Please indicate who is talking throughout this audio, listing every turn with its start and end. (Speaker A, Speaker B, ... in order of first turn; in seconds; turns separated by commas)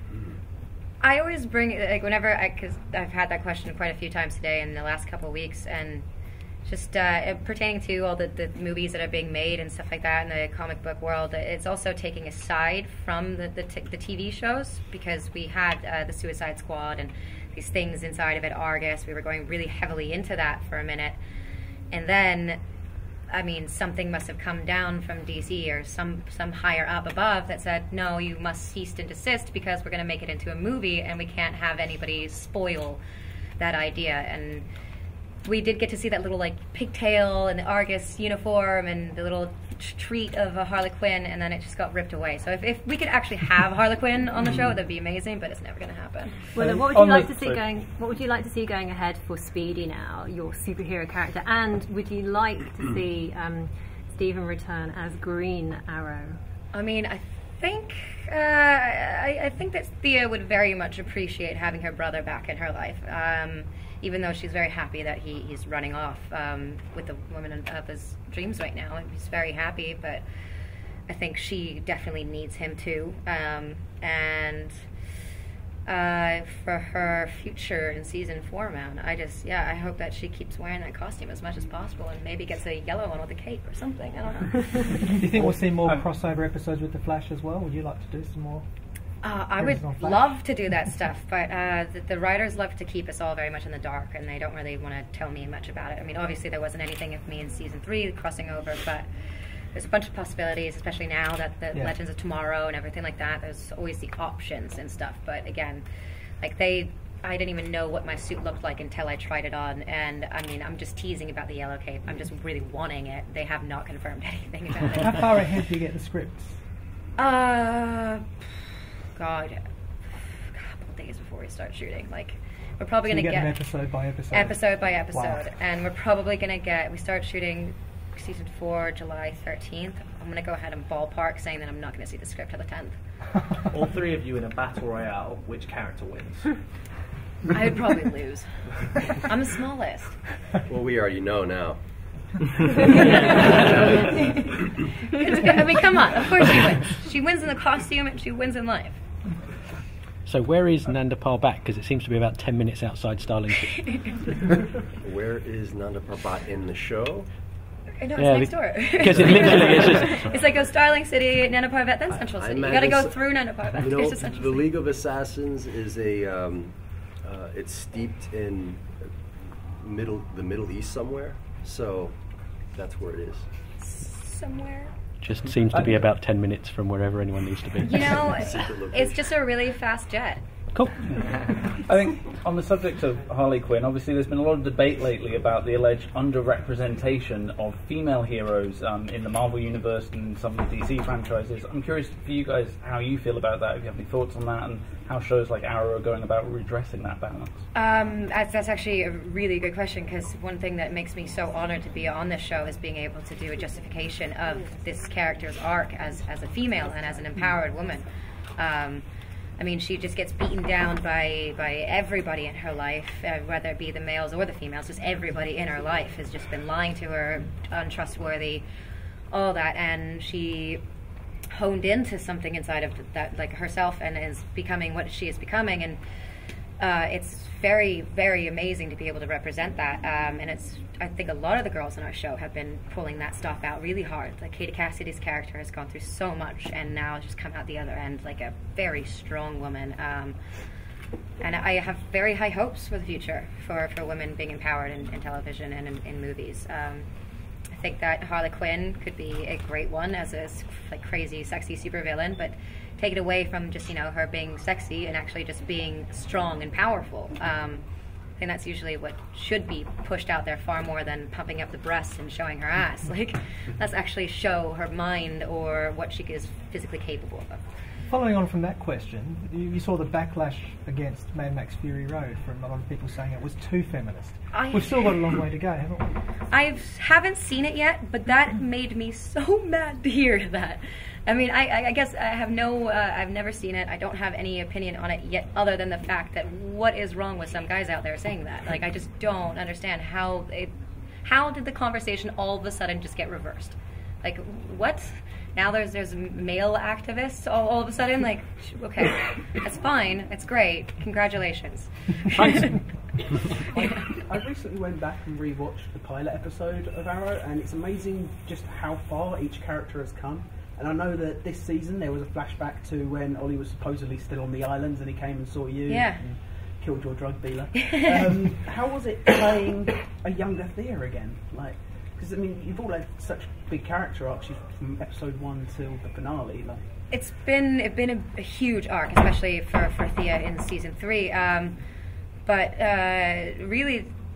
Speaker A: 1.0-6.1, Speaker A: 6.7-21.2, Speaker A: 21.9-22.6, Speaker A: 23.3-33.0, Speaker A: 33.6-34.7, Speaker A: 35.5-46.4, Speaker B: 46.5-56.4, Speaker C: 46.5-47.6, Speaker A: 56.7-70.2, Speaker A: 71.1-74.8, Speaker A: 75.9-85.1, Speaker D: 85.1-88.7, Speaker C: 85.4-86.0, Speaker A: 89.2-99.1, Speaker D: 89.6-90.3, Speaker A: 99.7-105.8, Speaker A: 106.4-115.3, Speaker D: 115.0-116.6, Speaker A: 117.2-123.7, Speaker D: 123.0-125.4, Speaker A: 124.3-133.0, Speaker E: 133.7-136.6, Speaker A: 137.5-140.2, Speaker F: 140.7-141.8, Speaker F: 142.9-144.2, Speaker A: 143.1-143.6, Speaker A: 145.1-149.0, Speaker G: 150.2-154.1, Speaker A: 153.7-154.1, Speaker F: 155.0-157.3, Speaker A: 158.0-164.6, Speaker G: 158.2-160.4, Speaker F: 162.1-169.1, Speaker F: 169.8-172.2, Speaker F: 172.7-173.5, Speaker A: 173.8-174.9, Speaker G: 175.2-178.3, Speaker C: 175.7-176.1, Speaker A: 177.8-180.4, Speaker F: 178.0-179.2, Speaker C: 181.8-197.6, Speaker A: 197.7-208.1, Speaker A: 208.6-209.0, Speaker A: 209.6-218.6, Speaker A: 219.3-220.8, Speaker A: 221.5-226.0, Speaker A: 226.8-240.4, Speaker A: 241.4-247.1, Speaker A: 247.7-257.8, Speaker A: 258.4-267.6, Speaker D: 268.1-276.2, Speaker A: 274.5-275.3, Speaker A: 276.5-290.7, Speaker A: 291.2-302.8, Speaker H: 303.6-326.9, Speaker A: 315.9-316.2, Speaker A: 327.1-331.8, Speaker A: 332.5-334.1